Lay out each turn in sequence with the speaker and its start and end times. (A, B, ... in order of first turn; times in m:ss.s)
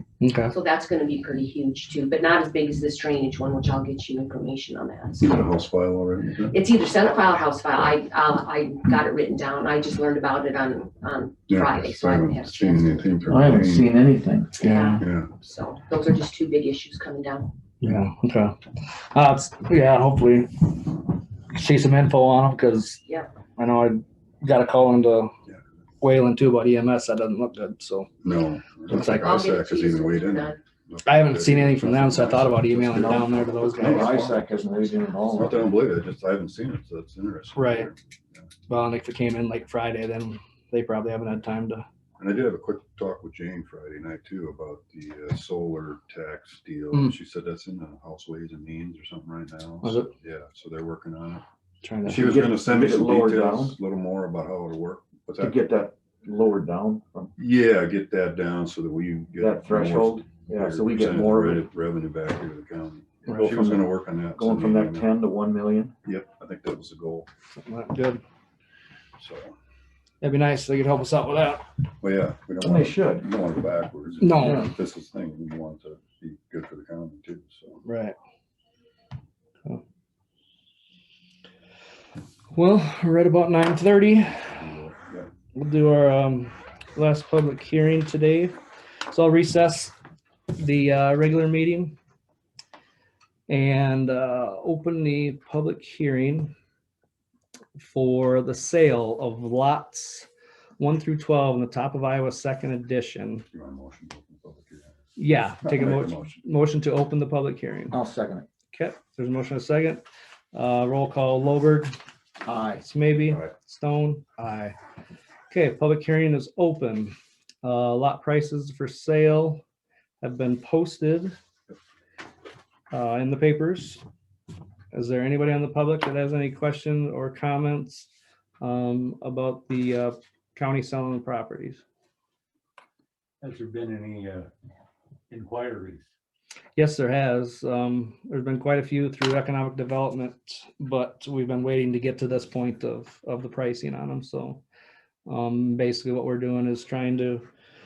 0:00.2-0:00.5 A
0:00.5-0:05.5 B
0:05.2-0:06.5 C
0:06.5-0:13.1 B
0:11.5-0:13.9 C
0:13.3-0:14.5 D
0:14.6-0:15.0 A
0:14.6-0:17.6 B
0:15.0-0:15.3 C
0:17.8-0:18.6 A
0:19.1-0:23.0 A
0:23.0-0:23.3 B
0:23.6-0:25.3 A
0:26.0-0:28.1 A
0:28.2-0:34.4 C
0:28.9-0:29.3 A
0:28.9-0:30.6 B
0:31.0-0:34.2 A
0:32.8-0:35.6 D
0:35.3-0:38.5 C
0:37.5-0:37.9 A
0:38.7-0:41.8 A
0:42.2-0:51.4 C
0:49.8-0:50.1 A
0:51.8-0:52.4 A
0:52.0-0:55.6 C
0:52.1-0:53.8 D
0:55.4-0:57.3 D
0:57.4-1:05.1 C
0:59.4-1:01.6 D
1:03.2-1:03.5 A
1:03.3-1:05.9 D
1:06.0-1:07.3 C
1:07.5-1:08.2 A
1:09.2-1:09.5 C
1:10.2-1:11.7 A
1:12.0-1:17.8 C
1:12.6-1:13.3 D
1:14.2-1:14.7 A
1:14.4-1:14.7 D
1:17.8-1:18.1 A
1:22.5-1:24.5 A
1:24.4-1:25.3 C
1:25.5-1:29.9 A
1:30.6-1:32.0 A
1:33.5-1:36.5 A
1:37.8-1:40.3 A
1:40.8-1:43.4 A
1:43.5-1:45.0 C
1:45.2-1:48.0 A
1:45.6-1:46.3 C
1:47.9-1:48.5 D
1:48.7-1:51.9 A
1:52.4-1:53.5 D
1:52.8-1:54.8 A
1:55.5-1:59.6 A
2:00.2-2:01.3 A
2:02.9-2:04.0 A
2:04.9-2:08.1 A
2:08.6-2:11.8 A
2:13.4-2:14.5 E
2:15.3-2:16.0 E
2:15.4-2:15.7 C
2:16.8-2:24.6 A
2:25.2-2:27.5 A